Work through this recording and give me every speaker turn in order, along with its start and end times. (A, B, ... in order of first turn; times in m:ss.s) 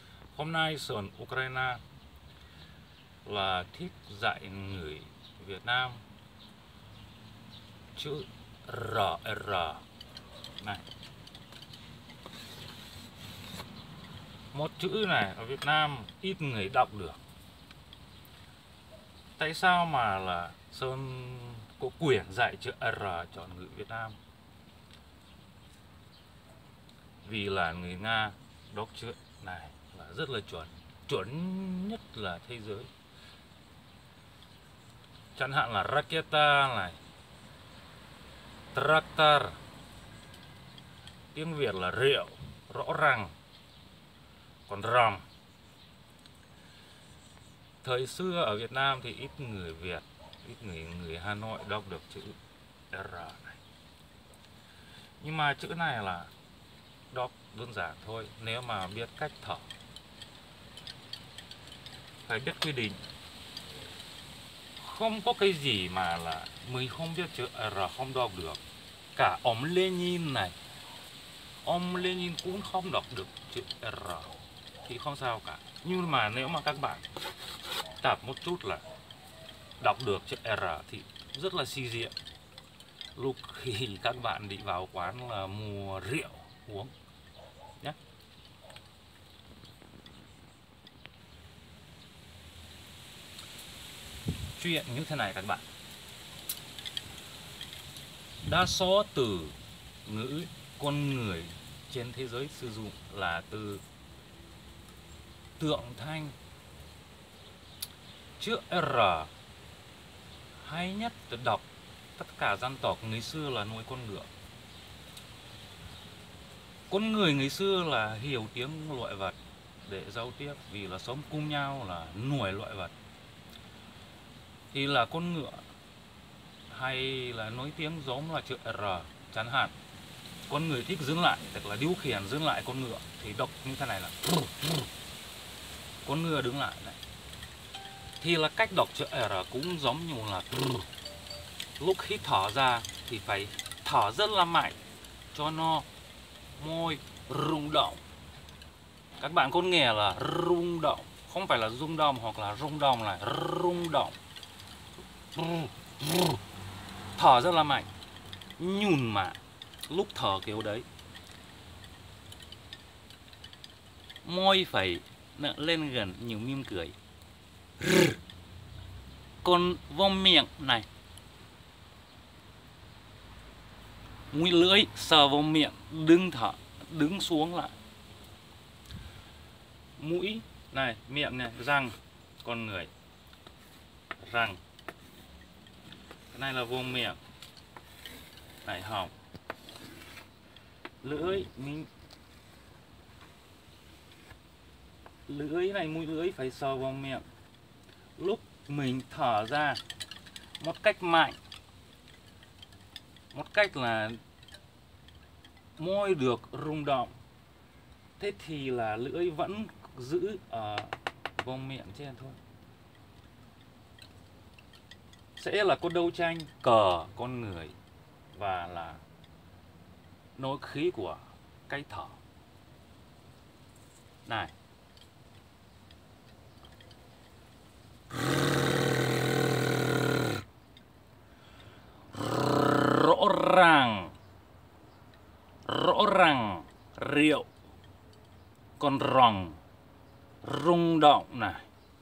0:00.3-0:01.8 A
0:03.2-0:06.0 A
0:08.0-0:09.8 A
0:14.5-0:17.2 A
0:19.4-0:24.2 A
0:27.2-0:32.9 A
0:35.4-0:37.0 A
0:38.7-0:39.6 A
0:41.3-0:43.3 A
0:44.7-0:45.2 A
0:47.8-0:52.4 A
0:52.9-0:53.6 A
0:55.2-0:56.3 A
0:57.1-0:59.7 A
1:02.2-1:03.0 A
1:04.8-1:08.6 A
1:09.2-1:10.6 A
1:11.6-1:17.0 A
1:18.0-1:18.8 A
1:19.8-1:22.2 A
1:23.2-1:26.9 A
1:34.6-1:35.6 A
1:38.4-1:43.8 A
1:45.6-1:46.4 A
1:48.4-1:49.3 A
1:50.6-1:51.7 A
1:52.2-1:54.3 A
1:56.9-2:02.9 A
2:04.7-2:05.6 A
2:06.7-2:09.8 A
2:10.5-2:14.9 A
2:16.0-2:17.0 A
2:18.2-2:20.9 A
2:21.8-2:24.8 A
2:25.3-2:25.9 A
2:26.6-2:28.0 A
2:29.2-2:34.2 A
2:35.4-2:36.4 A
2:37.2-2:37.9 A
2:38.6-2:40.9 A
2:44.2-2:47.0 A
2:49.4-2:50.9 A
2:54.3-2:57.8 A
3:00.0-3:02.9 A
3:04.2-3:04.6 A
3:06.3-3:07.2 A
3:08.6-3:09.1 A
3:11.0-3:11.9 A
3:15.3-3:17.2 A
3:18.2-3:19.8 A
3:20.6-3:21.4 A
3:23.3-3:24.2 A
3:25.8-3:27.1 A
3:28.2-3:32.4 A
3:35.4-3:37.8 A
3:38.3-3:39.0 A
3:40.4-3:42.2 A
3:44.3-3:44.5 A
3:52.2-3:54.2 A
3:55.6-3:57.5 A
3:58.8-3:59.6 A
4:00.4-4:01.6 A